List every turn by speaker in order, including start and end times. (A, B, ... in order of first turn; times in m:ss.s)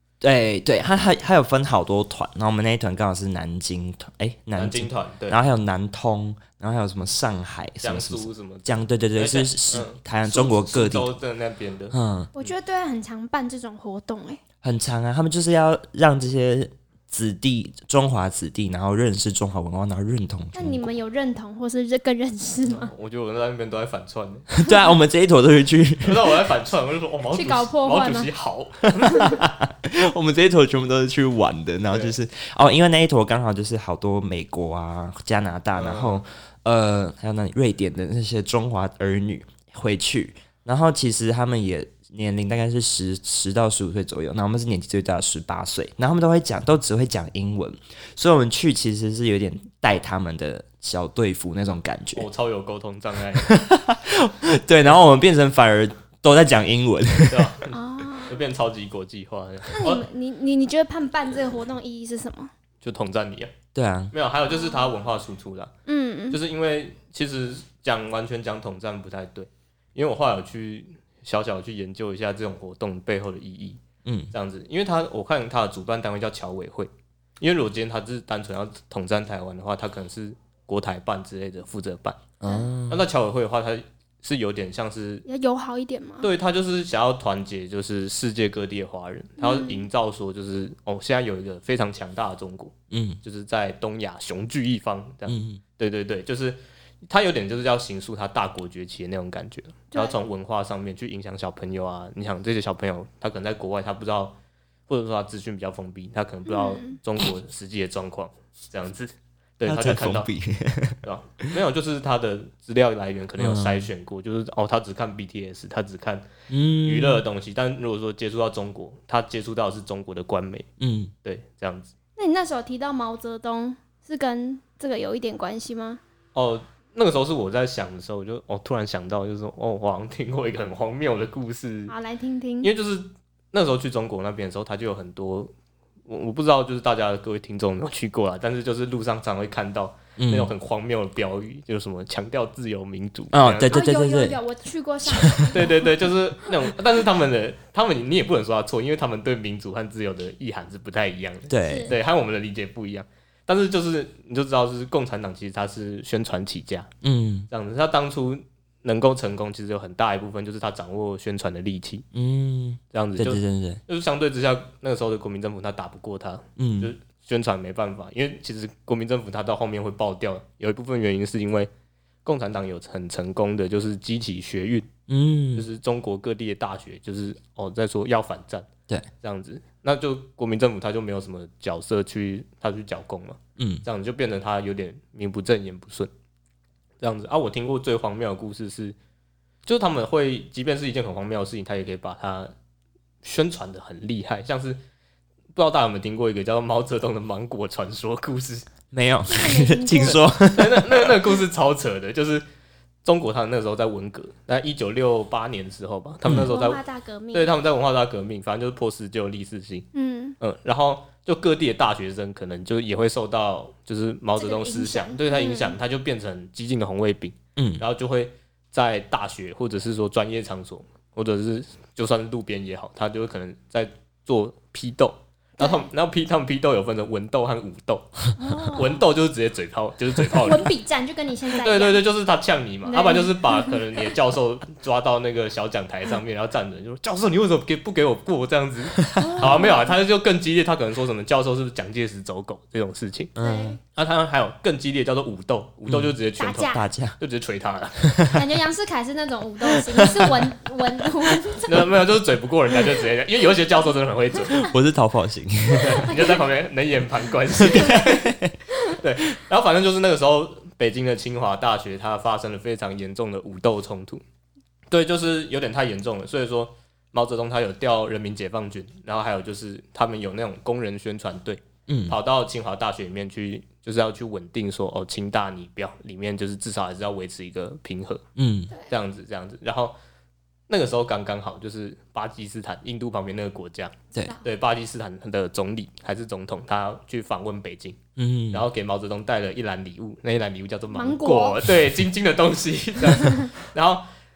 0:00.2-0:11.1 A
0:04.6-0:05.4 B
0:07.8-0:12.5 B
0:11.9-0:12.3 A
0:12.4-0:14.4 C
0:14.6-0:20.9 A
0:20.6-0:22.9 C
0:22.6-0:24.5 B
0:24.5-0:26.3 A
0:26.0-0:29.4 B
0:27.3-0:28.3 C
0:29.1-0:52.3 A
0:31.9-0:32.2 B
0:35.8-0:36.2 B
0:52.2-0:53.5 B
0:53.4-0:57.5 A
0:57.3-1:00.0 B
0:57.7-0:58.4 C
0:59.7-1:02.5 C
1:02.8-1:03.5 B
1:03.7-1:04.1 A
1:04.1-1:05.7 B
1:05.9-1:06.4 C
1:06.3-1:13.8 B
1:14.0-1:14.3 A
1:14.3-1:22.2 B
1:22.4-1:23.0 A
1:22.9-1:25.2 B
1:25.3-1:26.3 C
1:26.2-1:50.3 B
1:29.4-1:29.8 C
1:32.9-1:33.2 A
1:35.3-1:35.6 A
1:39.9-1:40.2 C
1:46.5-1:47.0 C
1:49.7-1:51.5 A
1:51.0-1:56.3 B
1:53.4-1:53.9 A
1:56.5-1:57.2 A
1:56.8-2:00.7 B
2:00.8-2:01.1 A
2:01.2-2:01.9 B
2:02.2-2:06.0 C
2:06.4-2:11.9 B
2:11.9-2:12.7 C
2:12.6-2:15.5 B
2:16.1-2:23.8 B
2:20.2-2:20.5 A
2:23.3-2:24.4 A
2:23.7-2:26.5 C
2:25.1-2:25.5 A
2:25.5-2:36.9 B
2:31.5-2:31.9 A
2:31.6-2:32.0 C
2:37.0-2:37.5 A
2:37.5-2:42.1 B
2:42.1-2:43.8 A
2:42.9-2:51.7 B
2:46.6-2:46.9 A
2:52.2-2:54.9 B
2:55.1-2:55.7 A
2:55.5-2:58.7 B
2:59.2-3:06.1 B
3:03.6-3:03.8 A
3:07.0-3:09.0 B
3:09.7-3:12.5 B
3:13.2-3:14.8 B
3:15.5-3:18.7 B
3:18.9-3:21.2 A
3:19.3-3:20.2 C
3:20.0-3:22.4 B
3:23.0-3:29.9 B
3:26.2-3:26.5 A
3:26.4-3:27.5 C
3:29.9-3:30.4 C
3:30.4-3:50.7 B
3:34.4-3:35.8 C
3:37.6-3:37.8 A
3:45.6-3:45.9 C
3:48.4-3:49.1 C
3:50.3-3:52.0 C
3:51.6-4:03.3 B
3:52.8-3:53.8 C
3:59.0-3:59.4 A
3:59.2-3:59.9 C
4:03.4-4:03.8 A
4:03.4-4:03.8 C
4:04.0-4:08.2 B
4:05.9-4:07.2 A
4:06.4-4:06.8 C
4:08.0-4:08.4 A
4:08.3-4:11.9 C
4:09.7-4:10.3 A
4:11.7-4:14.7 B
4:14.5-4:16.1 A
4:15.7-4:24.2 B
4:17.6-4:18.5 A
4:24.9-4:38.2 B
4:31.9-4:32.2 A
4:38.4-4:38.7 A
4:38.9-4:40.0 B
4:40.7-4:48.0 B
4:48.2-4:48.6 A
4:48.5-4:54.0 B
4:50.9-4:51.6 C
4:53.2-4:53.5 C